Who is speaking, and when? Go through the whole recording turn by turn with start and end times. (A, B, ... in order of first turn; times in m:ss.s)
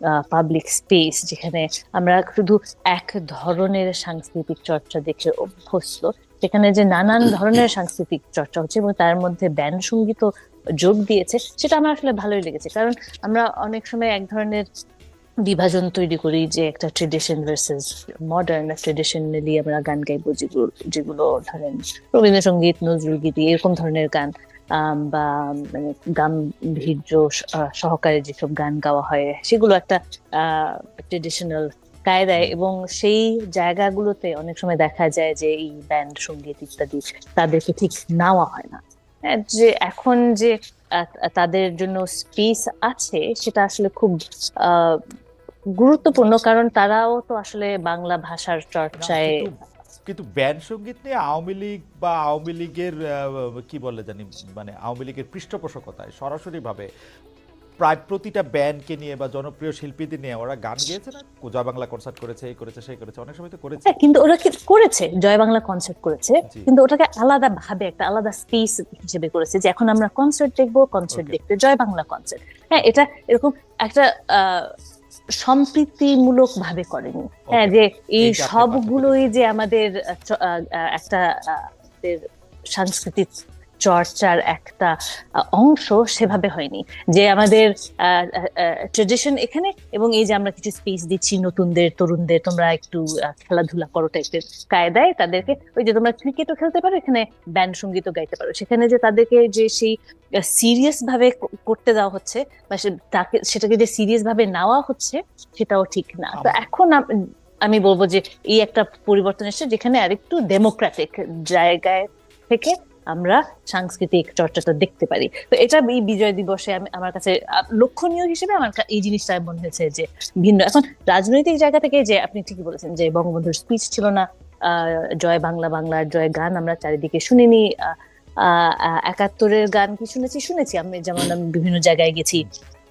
0:00.2-0:10.3 A
0:10.8-0:14.7 A
0:15.5-0:45.0 A
0:45.8-0:49.3 A
0:49.0-0:49.5 B
0:50.0-0:56.9 B
0:57.8-1:04.0 B
1:03.9-1:14.7 A
1:11.1-1:11.4 B
1:12.8-1:13.0 B
1:15.4-1:22.2 A
1:17.5-1:19.3 B
1:22.7-1:23.3 A
1:23.8-1:24.9 A
1:25.5-1:39.9 A
1:40.4-1:47.0 A
1:46.3-1:46.6 B
1:47.7-2:12.5 A